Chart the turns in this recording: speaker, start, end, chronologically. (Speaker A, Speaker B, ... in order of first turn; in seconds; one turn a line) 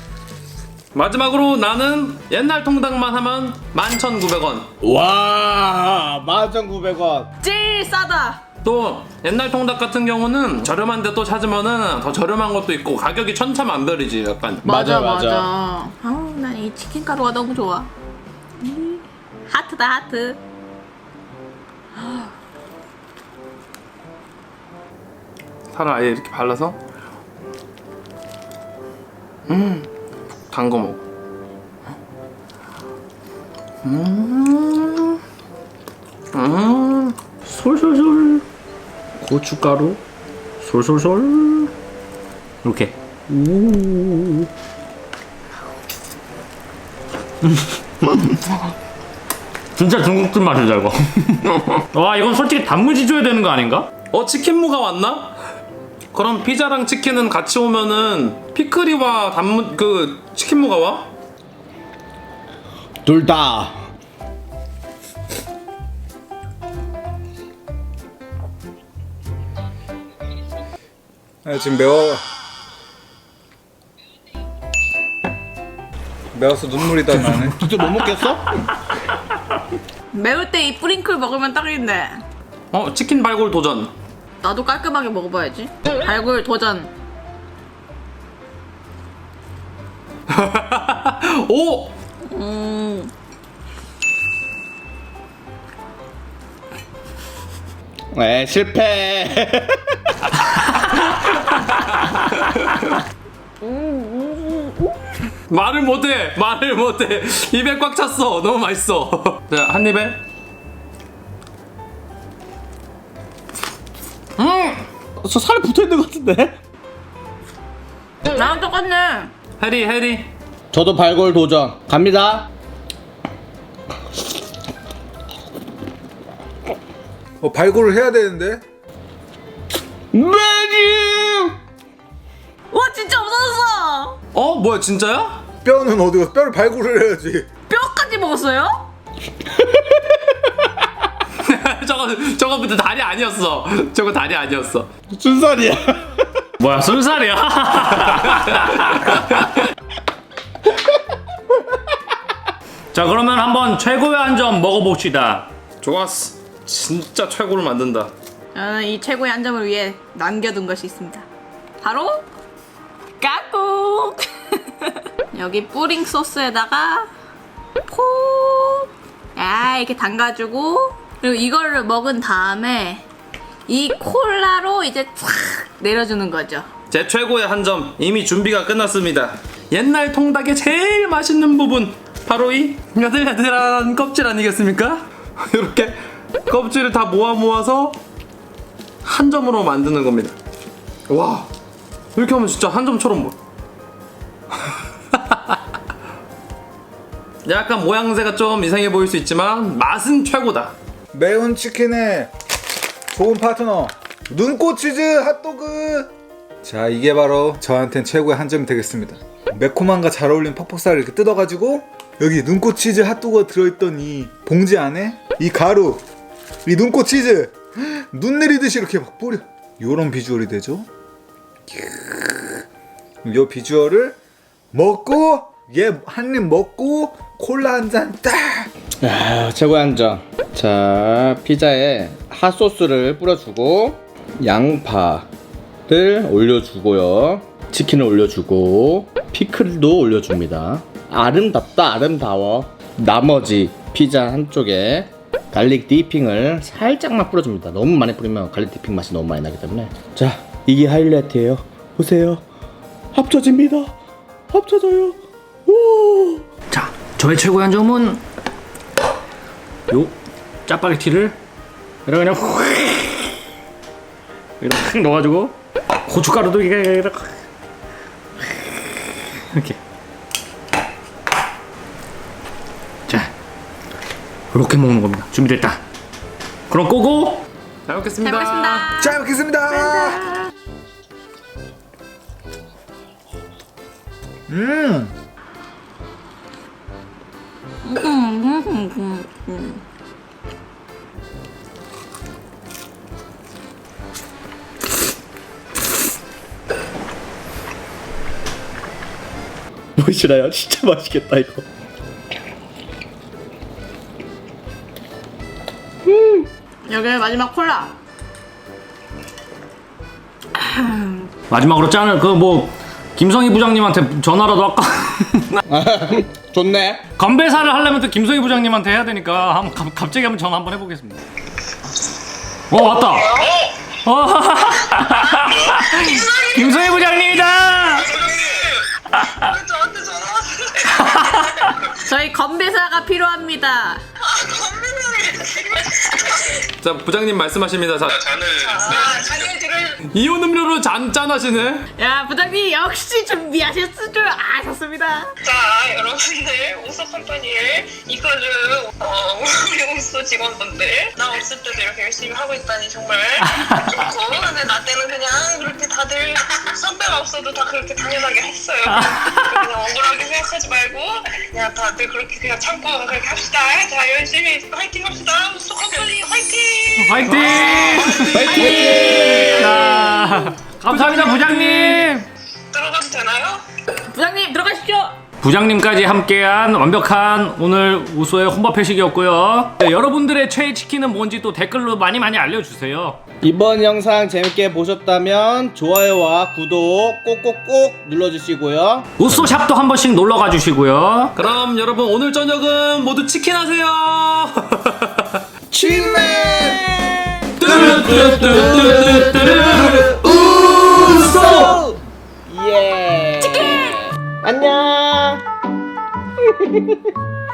Speaker A: 0.9-4.7
Speaker B: 4.8-7.3
Speaker C: 7.4-8.4
Speaker A: 8.6-14.7
Speaker B: 14.7-15.5
Speaker C: 14.7-17.9
Speaker C: 18.6-20.4
Speaker C: 22.0-22.3
Speaker A: 25.7-26.8
Speaker A: 29.5-29.9
Speaker A: 30.5-31.0
Speaker A: 33.8-35.2
Speaker A: 36.3-37.2
Speaker D: 37.5-38.4
Speaker D: 39.2-40.0
Speaker D: 40.6-41.7
Speaker D: 42.6-44.5
Speaker D: 47.4-48.5
Speaker D: 49.8-53.9
Speaker A: 54.1-55.3
Speaker A: 56.1-61.1
Speaker B: 63.0-63.8
Speaker E: 71.5-72.2
Speaker E: 76.3-77.7
Speaker B: 77.1-78.6
Speaker C: 80.1-82.2
Speaker A: 82.7-83.9
Speaker C: 84.4-86.9
Speaker A: 90.3-91.9
Speaker C: 92.2-93.1
Speaker B: 98.1-100.3
Speaker A: 105.5-110.2
Speaker B: 114.4-116.6
Speaker C: 118.3-119.3
Speaker A: 119.6-120.3
Speaker B: 120.7-122.5
Speaker E: 127.4-128.6
Speaker B: 130.1-131.6
Speaker C: 132.7-134.2
Speaker A: 134.3-135.4
Speaker E: 135.6-137.5
Speaker C: 137.7-138.9
Speaker B: 139.6-140.1
Speaker A: 141.4-144.9
Speaker B: 145.1-146.5
Speaker D: 146.6-149.0
Speaker A: 148.3-148.5
Speaker D: 152.9-155.5
Speaker A: 155.8-158.1
Speaker C: 158.5-161.3
Speaker C: 161.8-162.2
Speaker C: 163.2-167.1
Speaker C: 167.9-173.1
Speaker C: 173.7-176.7
Speaker A: 176.9-186.0
Speaker A: 186.5-188.0
Speaker A: 189.1-190.4
Speaker A: 191.1-191.5
Speaker A: 192.2-193.4
Speaker A: 195.1-195.6
Speaker A: 197.4-200.7
Speaker E: 201.1-202.3
Speaker E: 203.1-206.1
Speaker E: 206.6-216.0
Speaker E: 216.7-220.9
Speaker E: 221.7-222.6
Speaker E: 223.2-224.2
Speaker E: 224.7-228.7
Speaker B: 229.0-235.3
Speaker B: 235.9-252.4
Speaker B: 253.1-253.9
Speaker B: 254.5-256.4
Speaker D: 256.7-258.2
Speaker D: 259.9-260.1
Speaker D: 260.7-261.4
Speaker D: 262.1-263.4
Speaker D: 264.6-267.3
Speaker D: 269.5-269.8
Speaker D: 274.5-275.8
Speaker D: 276.7-277.4
Speaker A: 277.9-278.9
Speaker C: 278.2-280.5
Speaker E: 279.0-280.2
Speaker E: 284.5-285.1
Speaker C: 287.8-289.8
Speaker B: 300.0-301.6
Speaker B: 306.1-306.5
Speaker C: 306.9-307.9
Speaker C: 310.6-311.3
Speaker D: 311.5-315.6
Speaker B: 315.7-317.1
Speaker D: 317.2-321.2
Speaker D: 322.7-323.5
Speaker D: 324.1-328.2
Speaker F: 326.1-327.0
Speaker F: 328.0-328.8
Speaker D: 329.1-329.5
Speaker F: 329.5-331.4
Speaker D: 330.9-331.6
Speaker C: 331.9-334.0
Speaker F: 334.2-336.5
Speaker A: 336.8-339.2
Speaker F: 338.7-340.0
Speaker A: 340.1-341.9
Speaker C: 342.0-345.3
Speaker F: 345.4-368.2
Speaker D: 353.6-354.0
Speaker D: 358.9-359.7
Speaker D: 367.0-368.5
Speaker C: 368.3-370.1
Speaker B: 368.3-369.5
Speaker D: 369.1-372.3
Speaker A: 370.9-372.1
Speaker F: 372.7-373.6
Speaker C: 374.1-375.1
Speaker D: 375.4-383.2
Speaker B: 383.4-389.1
Speaker D: 389.2-391.4
Speaker A: 391.4-395.4
Speaker B: 395.7-400.0
Speaker E: 395.8-396.8
Speaker A: 397.6-401.8
Speaker E: 397.6-398.5
Speaker E: 399.5-400.3
Speaker B: 400.8-405.4
Speaker E: 400.9-401.6
Speaker C: 403.4-404.1
Speaker B: 406.4-407.1